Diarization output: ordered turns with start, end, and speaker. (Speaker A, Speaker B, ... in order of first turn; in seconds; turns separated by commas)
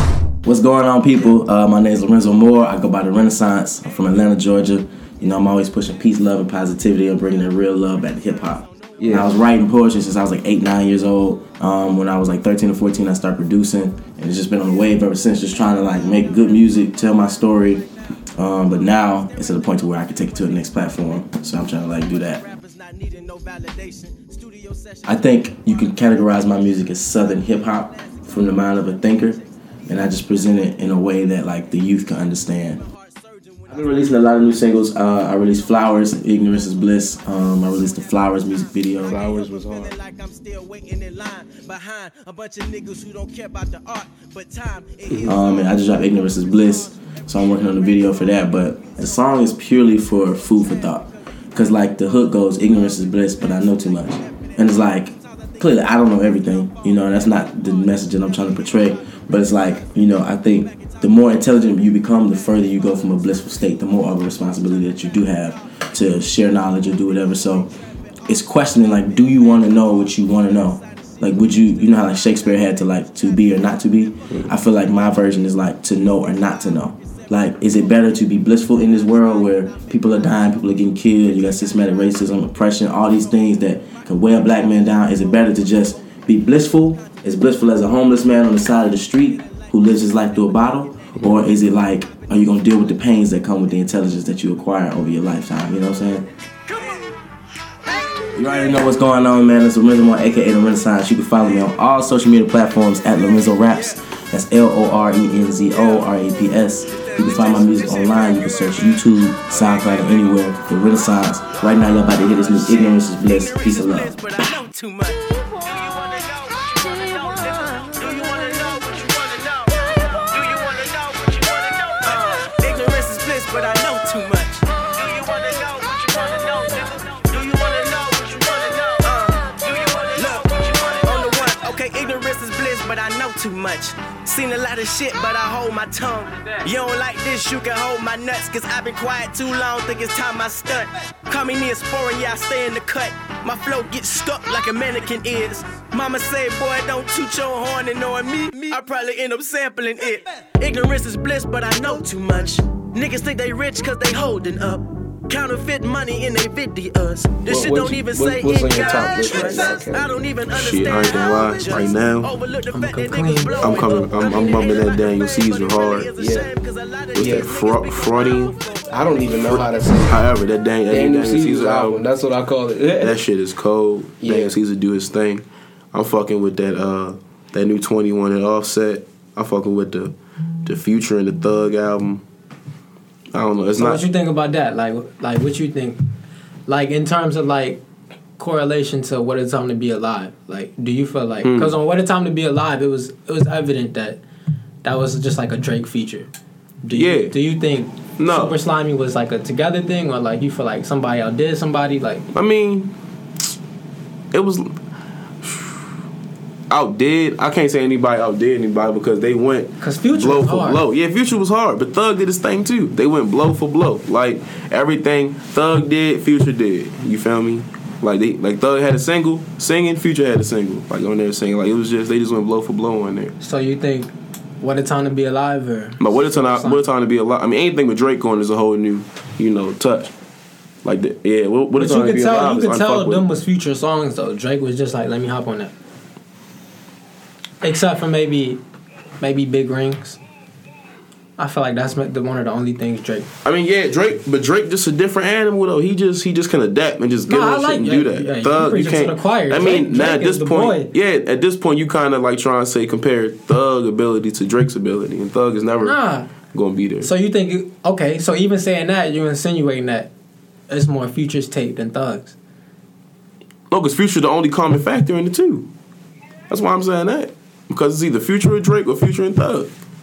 Speaker A: 0.4-22.4, Speaker B: 7.0-11.9, Speaker C: 9.0-9.3, Speaker B: 15.5-94.3, Speaker A: 25.0-32.8, Speaker A: 33.7-39.2, Speaker C: 39.0-39.9, Speaker A: 45.2-67.7, Speaker A: 68.3-96.3, Speaker D: 91.2-91.4, Speaker B: 96.0-97.3, Speaker B: 97.8-100.4, Speaker A: 98.3-114.2, Speaker B: 103.2-170.1, Speaker C: 157.4-160.2, Speaker D: 160.5-162.3, Speaker E: 162.7-164.1, Speaker D: 163.6-166.1, Speaker C: 166.2-166.5, Speaker C: 167.1-167.5, Speaker D: 167.1-168.5, Speaker C: 168.9-170.2, Speaker D: 170.1-172.0, Speaker C: 170.9-173.2, Speaker D: 173.0-180.1, Speaker C: 174.2-174.6, Speaker D: 180.6-182.2, Speaker D: 183.3-184.0, Speaker E: 183.8-186.0, Speaker E: 186.7-187.8, Speaker E: 188.4-194.2, Speaker D: 191.4-191.7, Speaker E: 194.8-196.3, Speaker E: 196.8-202.2, Speaker D: 196.9-197.3, Speaker D: 198.2-198.5, Speaker D: 202.3-202.9, Speaker D: 204.3-204.7, Speaker D: 205.4-205.8, Speaker D: 206.7-223.3, Speaker E: 209.8-210.8, Speaker E: 223.4-226.8, Speaker D: 226.0-230.1, Speaker D: 230.8-233.2, Speaker E: 231.8-235.7, Speaker E: 237.6-238.6, Speaker E: 239.2-240.2, Speaker E: 241.4-243.3, Speaker D: 243.4-256.0, Speaker E: 247.3-250.9, Speaker E: 255.8-256.3, Speaker D: 256.5-257.1, Speaker E: 257.0-260.1, Speaker E: 260.7-262.3, Speaker D: 263.7-265.7, Speaker D: 266.5-269.7